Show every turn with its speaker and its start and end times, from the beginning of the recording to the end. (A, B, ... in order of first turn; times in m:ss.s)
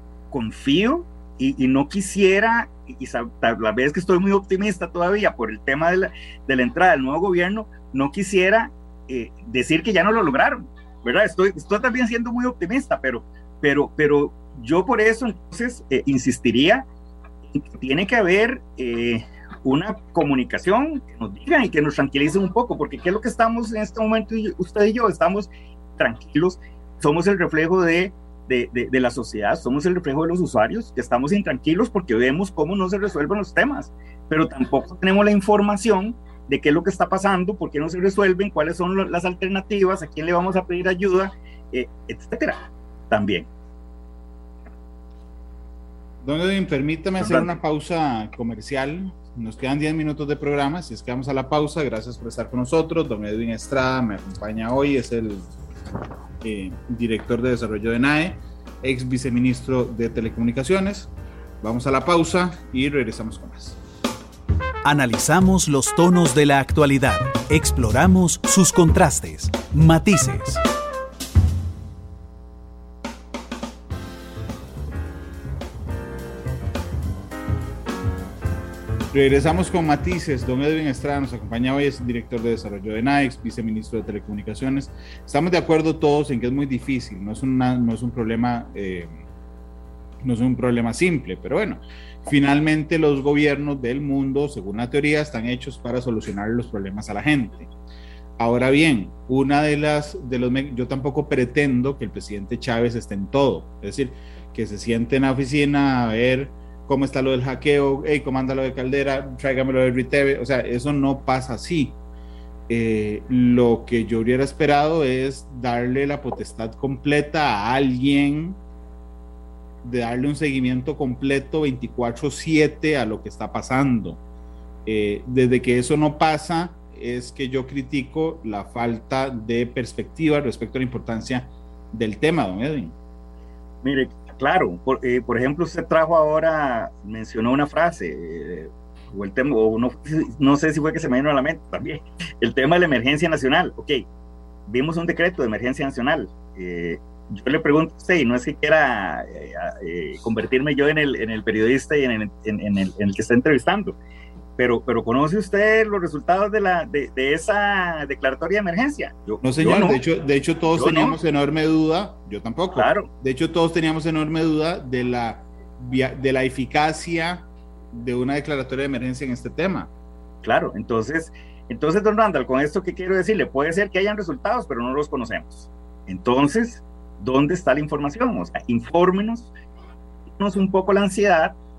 0:00.3-0:16.8 A
0:17.5-0:43.5 A
0:46.2-0:55.5 B
0:47.2-0:47.5 A
0:56.4-1:03.8 B
1:04.8-1:10.6 C
1:19.1-1:29.2 B
1:30.2-1:37.7 B
1:38.4-1:52.0 B
1:52.7-1:58.6 B
1:59.8-2:04.2 B
2:04.8-2:12.9 B
2:13.8-2:24.0 A
2:24.7-2:34.0 A
2:34.6-2:40.0 A
2:39.4-2:49.9 B
2:40.7-2:41.2 A
2:42.7-2:43.1 A
2:50.4-2:59.5 A
3:00.4-3:01.6 A